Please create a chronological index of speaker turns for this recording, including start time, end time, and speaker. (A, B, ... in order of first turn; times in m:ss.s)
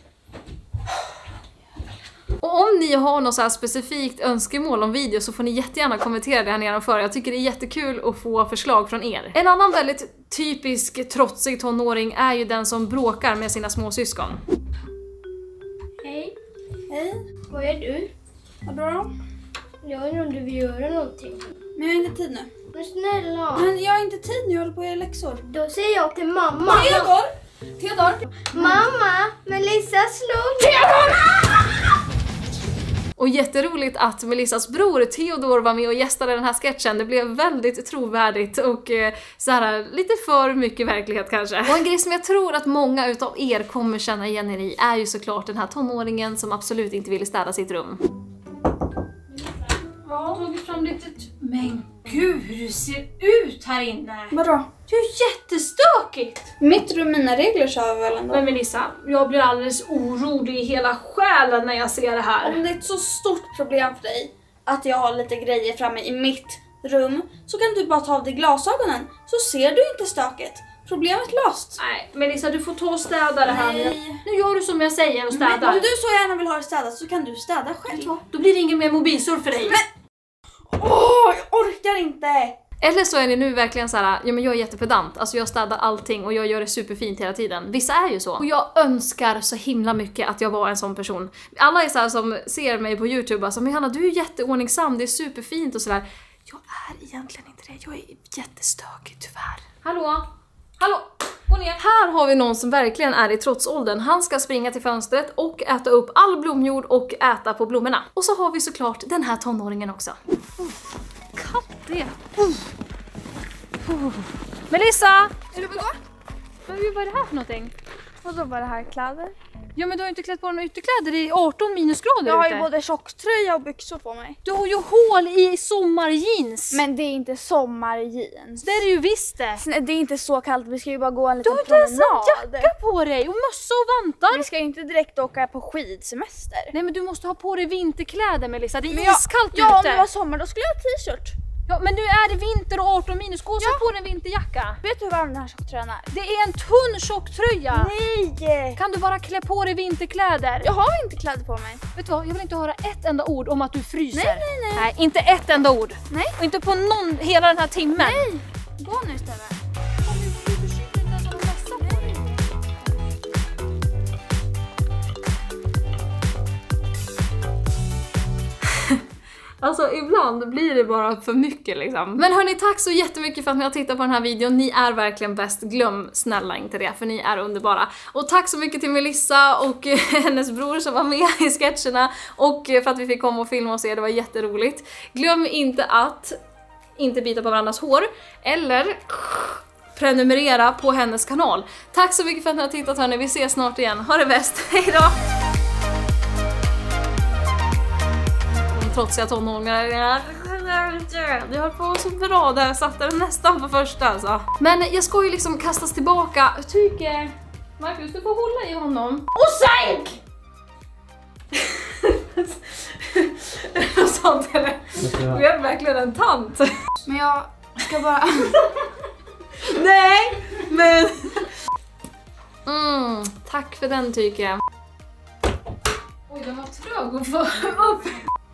0:02.4-0:14.4 A
0:16.0-0:16.3 B
0:16.9-0:17.2 C
0:17.5-0:18.1 B
0:18.6-0:19.1 C
0:19.8-0:21.5 B
0:21.7-0:22.5 C
0:22.7-0:23.7 B
0:23.5-0:25.4 C
0:25.5-0:27.1 B
0:26.6-0:28.9 C
0:28.5-0:31.1 B
0:30.6-0:31.8 C
0:33.2-0:48.0 A
0:50.0-0:50.4 C
0:50.1-0:56.5 A
0:54.3-0:54.7 C
0:56.6-0:58.5 C
0:58.3-1:02.6 A
1:02.4-1:11.8 C
1:11.8-1:15.9 A
1:13.4-1:14.2 C
1:15.3-1:18.2 C
1:17.9-1:19.8 A
1:19.6-1:19.8 C
1:20.7-1:22.6 C
1:22.8-1:40.3 A
1:40.8-1:50.8 A
1:51.3-1:52.7 A
1:53.8-1:55.8 A
1:55.5-1:56.0 C
1:56.6-1:57.7 A
1:58.2-1:59.3 C
1:59.7-2:02.7 A
2:02.2-2:04.4 C
2:04.4-2:06.8 A
2:06.7-2:08.7 C
2:08.6-2:09.6 A
2:09.6-2:12.7 C
2:11.4-2:14.4 A
2:14.3-2:16.7 C
2:16.7-2:20.1 A
2:18.9-2:21.4 C
2:21.7-2:24.8 A
2:24.8-2:26.1 C
2:26.1-2:27.9 A
2:27.7-2:28.8 C
2:28.8-2:30.7 A
2:30.6-2:31.8 C
2:31.9-2:38.2 A
2:34.1-2:34.9 C
2:36.1-2:36.4 C
2:38.0-2:39.6 C
2:40.0-2:42.3 A
2:41.7-2:42.4 C
2:49.6-3:06.4 A
3:07.0-3:15.2 A
3:18.7-3:30.2 A
3:31.5-3:36.7 A
3:37.0-3:38.6 C
3:38.5-3:38.9 A
3:39.6-3:41.5 A
3:42.6-3:44.6 A
3:46.3-3:48.2 A